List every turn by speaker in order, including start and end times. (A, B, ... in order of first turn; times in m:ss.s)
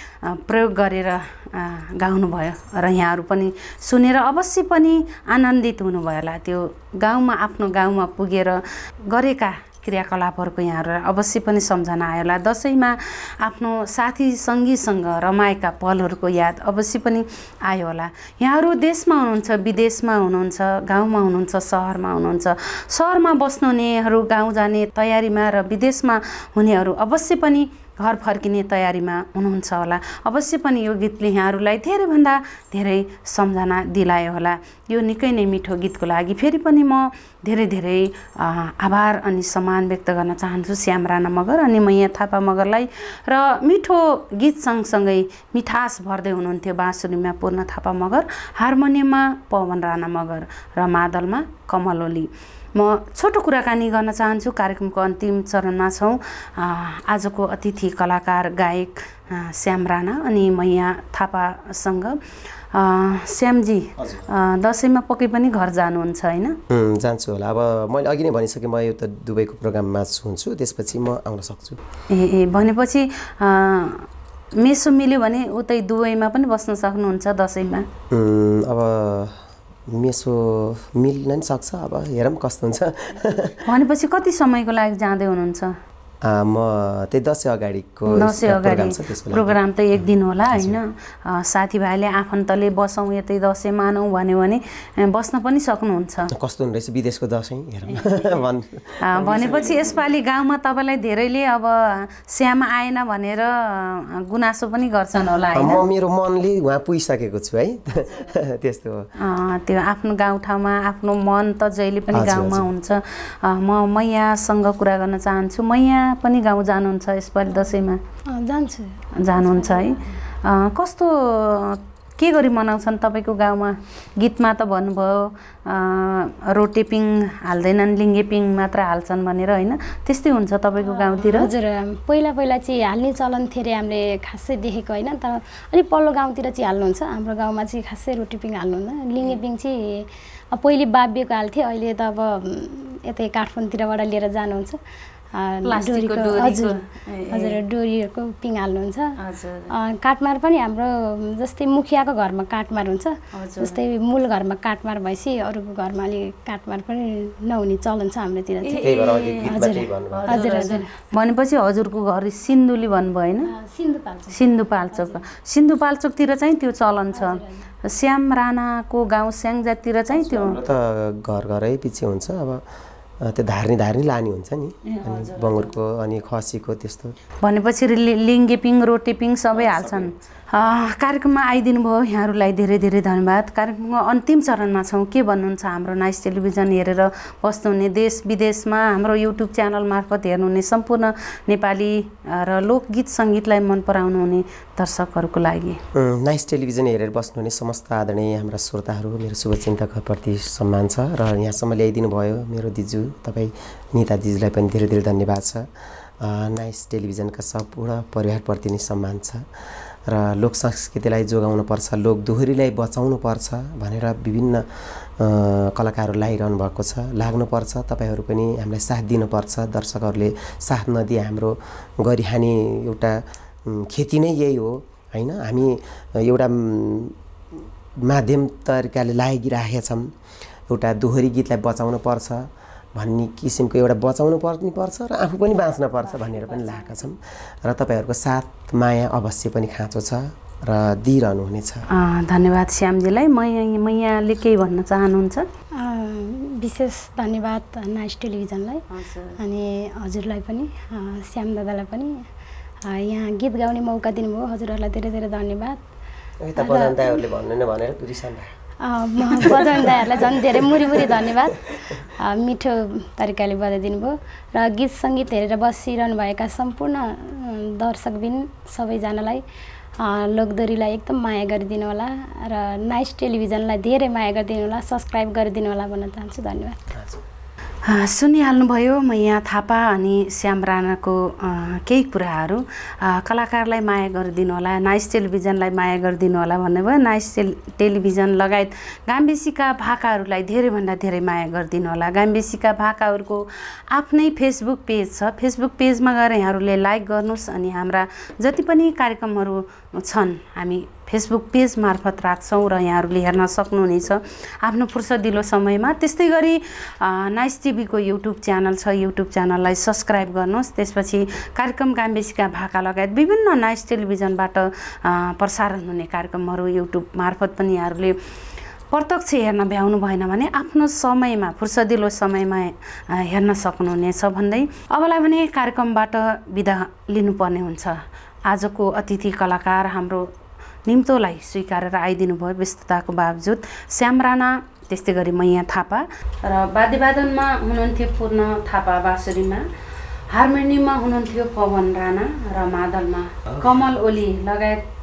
0:00.2-1:02.2 A
1:02.7-1:06.6 A
1:04.0-1:04.3 B
1:06.7-1:11.8 B
1:12.1-1:14.1 A
1:14.6-1:17.9 A
1:18.1-1:23.6 B
1:23.7-1:25.7 A
1:26.2-1:30.8 B
1:28.1-1:36.3 A
1:36.3-1:40.2 B
1:37.9-1:38.3 A
1:39.0-1:45.8 A
1:45.5-1:49.1 B
1:49.2-1:58.0 A
1:52.1-1:52.7 B
1:58.3-2:00.2 C
1:59.2-2:11.5 A
2:10.8-2:24.8 C
2:25.3-2:26.8 C
2:25.6-2:27.6 A
2:27.3-2:29.1 C
2:29.2-2:29.8 A
2:29.7-2:40.9 C
2:33.3-2:33.8 A
2:38.6-2:43.5 A
2:38.8-2:40.4 B
2:43.5-2:45.2 C
2:44.3-2:50.6 A
2:47.1-2:47.6 C
2:50.1-2:52.6 B
2:53.2-2:57.2 B
2:54.9-2:55.8 A
2:57.4-3:15.8 A
2:59.5-3:00.3 B
3:15.9-3:25.7 B
3:26.2-3:29.5 B
3:30.1-3:47.2 B
3:48.0-3:50.1 B
3:50.7-4:01.9 B
3:56.0-3:57.1 A
4:01.9-4:05.5 A
4:05.8-4:08.9 C
4:08.9-4:09.4 A
4:09.4-4:12.3 C
4:12.8-4:15.8 C
4:16.4-4:18.5 B
4:16.6-4:17.2 C
4:18.8-4:29.4 C
4:19.4-4:21.4 B
4:30.0-4:36.8 C
4:37.0-4:37.2 B
4:37.9-5:18.2 A
5:18.9-5:30.3 A
5:30.9-5:39.7 A
5:40.3-5:44.8 A